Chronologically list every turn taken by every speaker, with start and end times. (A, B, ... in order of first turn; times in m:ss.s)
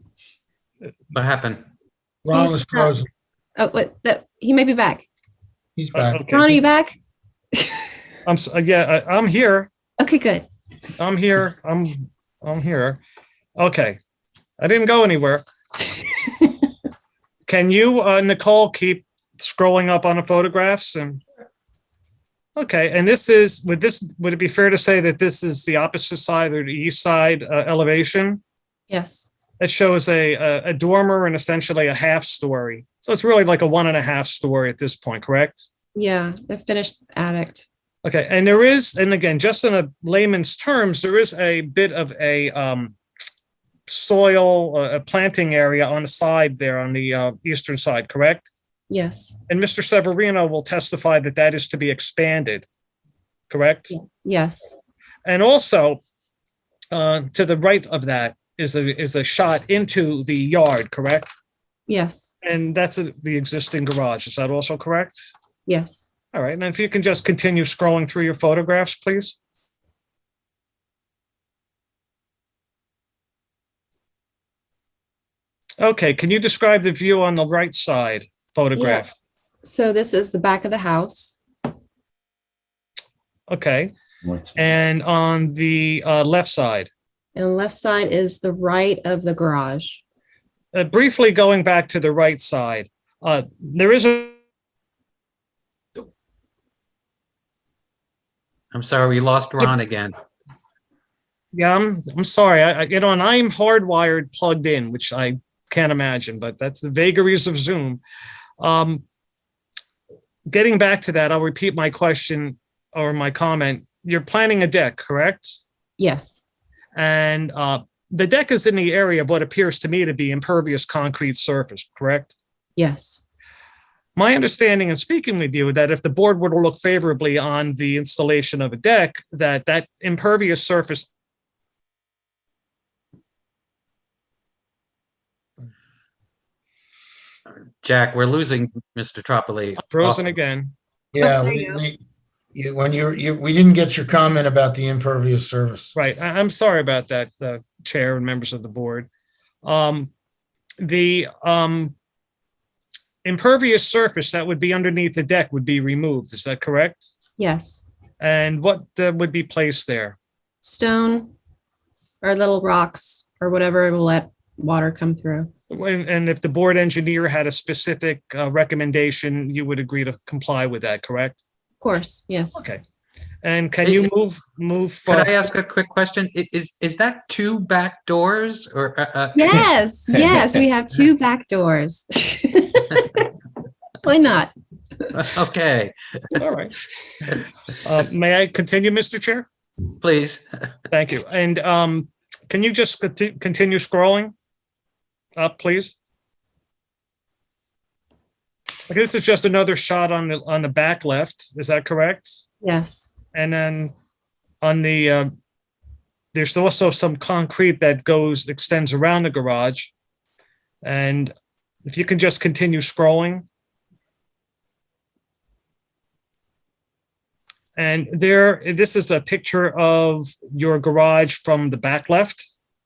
0:01.1-0:01.6 A
0:02.2-0:03.1 B
0:02.3-0:03.0 C
0:03.6-0:05.0 C
0:05.8-0:06.2 B
0:06.0-0:06.6 D
0:06.3-0:07.0 C
0:08.2-0:09.7 D
0:10.0-0:10.4 C
0:11.0-0:13.0 D
0:13.6-0:14.0 D
0:14.6-0:15.4 D
0:17.5-0:21.2 D
0:22.6-0:28.4 D
0:28.9-0:29.3 C
0:29.6-0:35.7 D
0:35.9-0:37.7 C
0:38.0-0:43.0 D
0:43.9-0:48.5 D
0:48.9-0:49.3 C
0:49.5-0:52.7 D
0:53.5-0:53.9 D
0:53.9-0:54.8 C
0:55.2-0:56.0 D
0:56.9-1:01.3 D
1:01.9-1:02.3 C
1:02.4-1:05.3 D
1:05.7-1:06.0 C
1:06.3-1:09.4 D
1:15.8-1:19.1 D
1:18.7-1:19.0 C
1:19.6-1:21.4 C
1:23.5-1:23.9 D
1:24.6-1:26.9 D
1:27.4-1:30.0 C
1:30.7-1:34.4 D
1:38.7-1:40.1 A
1:41.5-1:48.0 D
1:48.6-1:49.0 D
1:50.5-1:55.6 D
1:56.0-1:56.4 C
1:56.9-2:02.4 D
2:02.8-2:03.2 C
2:04.2-2:11.1 D
2:17.5-2:20.2 A
2:19.8-2:20.7 D
2:21.1-2:22.0 B
2:21.2-2:21.8 C
2:22.5-2:26.0 B
2:26.0-2:29.1 D
2:29.6-2:30.1 D
2:30.8-2:32.0 D
2:33.2-2:37.1 D
2:37.4-2:37.8 C
2:38.2-2:40.2 D
2:40.6-2:41.3 C
2:42.2-2:45.5 C
2:45.7-2:51.4 D
2:51.8-2:52.6 C
2:52.6-2:52.8 D
2:53.4-2:55.3 D
2:55.1-2:59.6 A
2:59.3-3:03.3 C
3:04.0-3:04.5 C
3:05.1-3:06.4 A
3:06.4-3:06.7 D
3:07.8-3:09.5 D
3:10.0-3:10.5 A
3:10.9-3:14.3 D
3:15.4-3:16.0 D
3:18.9-3:22.5 D
3:22.6-3:23.1 C
3:23.3-3:23.9 D
3:24.6-3:25.3 D
3:26.3-3:29.9 D
3:30.8-3:31.3 D
3:31.8-3:33.4 D
3:37.8-3:42.5 D